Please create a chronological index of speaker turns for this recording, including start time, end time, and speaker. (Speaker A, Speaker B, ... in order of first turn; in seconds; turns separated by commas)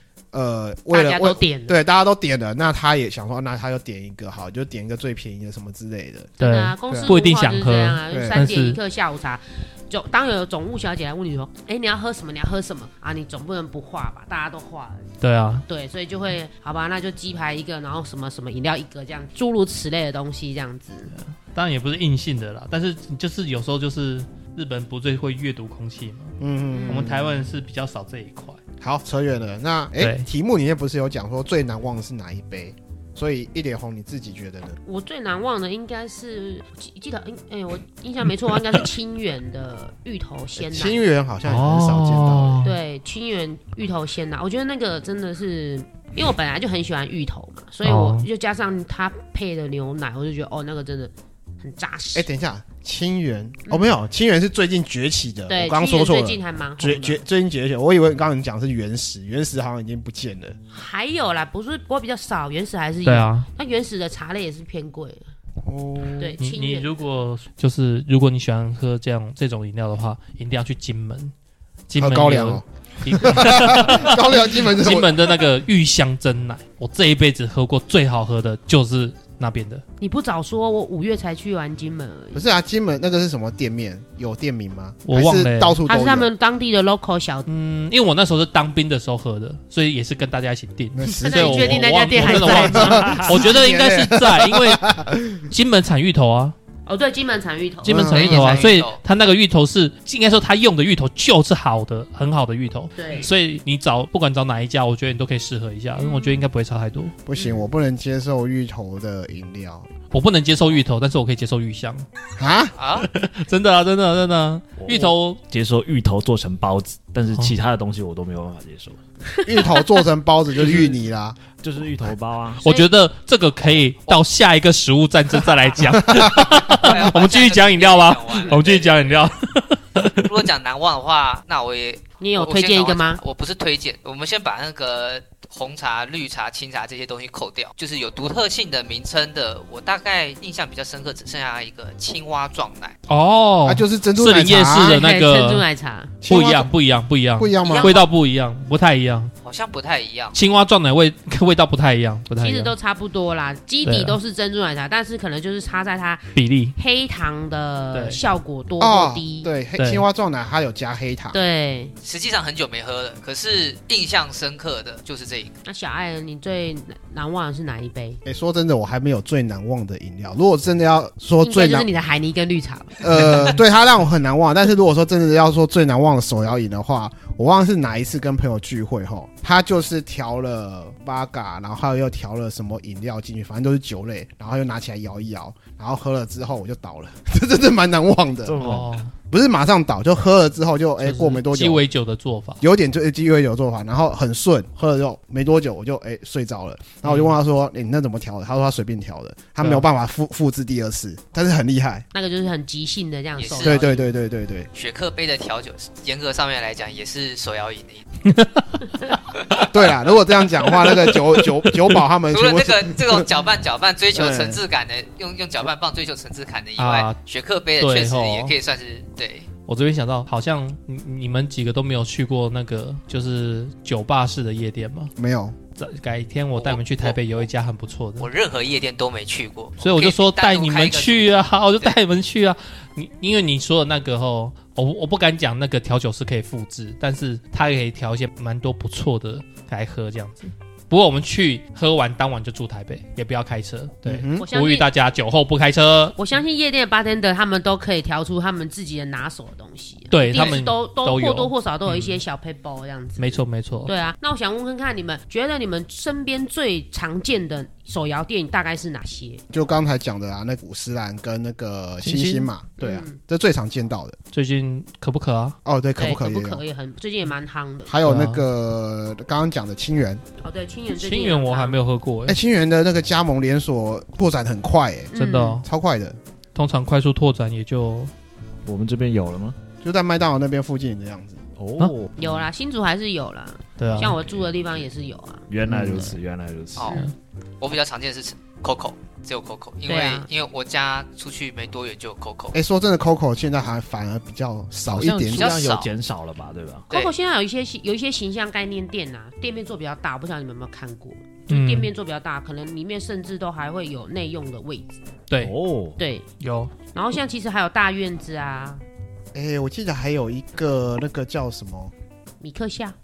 Speaker A: 0.3-6.3, Speaker B: 0.9-1.8, Speaker B: 6.4-15.1, Speaker C: 6.4-8.8, Speaker A: 6.9-7.1, Speaker A: 8.1-8.5, Speaker C: 15.2-15.7, Speaker B: 15.7-21.1, Speaker C: 21.1-26.4, Speaker A: 26.4-27.4, Speaker B: 26.7-27.1, Speaker C: 26.9-28.6, Speaker A: 28.8-34.8, Speaker C: 30.0-30.3, Speaker B: 34.8-41.0, Speaker A: 40.6-42.7, Speaker C: 41.5-42.8, Speaker B: 42.6-52.3, Speaker C: 47.8-48.3, Speaker A: 52.1-60.6, Speaker B: 55.5-57.2, Speaker B: 60.7-65.3, Speaker C: 63.0-63.5, Speaker A: 65.6-66.4, Speaker B: 66.2-66.9, Speaker C: 66.4-71.3, Speaker C: 71.9-79.8, Speaker A: 72.0-75.4, Speaker B: 80.0-82.5, Speaker A: 82.3-86.3, Speaker C: 85.0-85.8, Speaker B: 85.9-87.5, Speaker C: 87.5-94.8, Speaker A: 91.0-95.5, Speaker B: 91.2-93.4, Speaker D: 92.6-93.4, Speaker C: 95.4-96.5, Speaker B: 96.9-98.2, Speaker C: 97.8-107.1, Speaker A: 97.8-98.7, Speaker E: 98.2-99.0, Speaker B: 103.0-103.3, Speaker B: 106.0-106.5, Speaker A: 107.3-109.9, Speaker B: 107.3-107.7, Speaker C: 110.1-112.0, Speaker A: 112.4-112.7, Speaker E: 112.8-113.1, Speaker C: 113.0-115.4, Speaker D: 114.8-119.0, Speaker A: 119.5-121.4, Speaker D: 121.5-122.7, Speaker B: 122.6-122.9, Speaker C: 122.6-130.3, Speaker A: 126.2-126.6, Speaker E: 126.4-129.3, Speaker E: 130.2-143.0, Speaker B: 132.2-133.2, Speaker C: 143.1-145.7, Speaker A: 143.7-145.0, Speaker B: 144.8-146.2, Speaker A: 146.2-146.7, Speaker C: 146.3-149.3, Speaker A: 147.4-148.0, Speaker E: 147.6-148.0, Speaker E: 149.4-150.4, Speaker C: 150.3-152.7, Speaker B: 152.4-159.5, Speaker C: 153.8-154.2, Speaker C: 156.3-156.8, Speaker C: 157.9-158.2, Speaker A: 158.8-161.4, Speaker C: 159.8-160.1, Speaker B: 161.3-161.9, Speaker E: 162.0-165.6, Speaker B: 165.7-168.2, Speaker A: 168.2-171.9, Speaker B: 171.4-173.1, Speaker A: 173.0-188.6, Speaker D: 188.4-189.0, Speaker C: 188.6-189.1, Speaker A: 189.3-191.9, Speaker C: 191.0-192.6, Speaker A: 192.6-202.1, Speaker C: 197.0-197.3, Speaker C: 199.6-199.9, Speaker B: 202.1-204.1, Speaker E: 203.4-203.8, Speaker A: 203.6-204.7, Speaker E: 204.7-208.1, Speaker C: 208.3-208.7, Speaker A: 209.7-213.3, Speaker C: 210.9-212.0, Speaker E: 212.3-219.5, Speaker A: 214.1-214.6, Speaker C: 216.8-217.2, Speaker C: 217.8-218.6, Speaker C: 219.7-225.1, Speaker A: 225.2-225.6, Speaker C: 225.8-228.3, Speaker E: 226.6-227.2, Speaker E: 228.2-231.9, Speaker C: 229.8-246.2, Speaker A: 244.1-244.5, Speaker B: 244.4-244.9, Speaker B: 246.2-259.4, Speaker C: 250.1-252.2, Speaker C: 253.2-253.9, Speaker A: 259.5-264.2, Speaker C: 262.0-262.5, Speaker B: 262.8-263.2, Speaker C: 264.3-265.6, Speaker A: 265.6-266.6, Speaker B: 266.0-268.0, Speaker A: 267.9-270.2, Speaker C: 268.0-268.4, Speaker B: 270.4-271.8, Speaker C: 270.9-272.4, Speaker A: 272.3-276.2, Speaker B: 275.1-275.6, Speaker C: 275.1-275.6, Speaker C: 276.6-278.1, Speaker D: 278.6-279.6, Speaker A: 279.8-281.4, Speaker D: 281.6-282.4, Speaker B: 282.2-286.2, Speaker C: 283.8-284.2, Speaker D: 285.5-286.9, Speaker A: 285.7-286.0, Speaker E: 286.8-287.0, Speaker E: 287.6-292.6, Speaker B: 289.9-290.3, Speaker A: 292.5-295.6, Speaker D: 294.9-296.9, Speaker E: 295.3-295.9, Speaker E: 296.9-297.1, Speaker B: 296.9-304.9, Speaker C: 301.5-301.9, Speaker D: 305.4-306.0, Speaker B: 306.0-306.2, Speaker C: 306.4-306.7, Speaker B: 306.9-308.8, Speaker A: 309.3-311.9, Speaker B: 312.4-312.9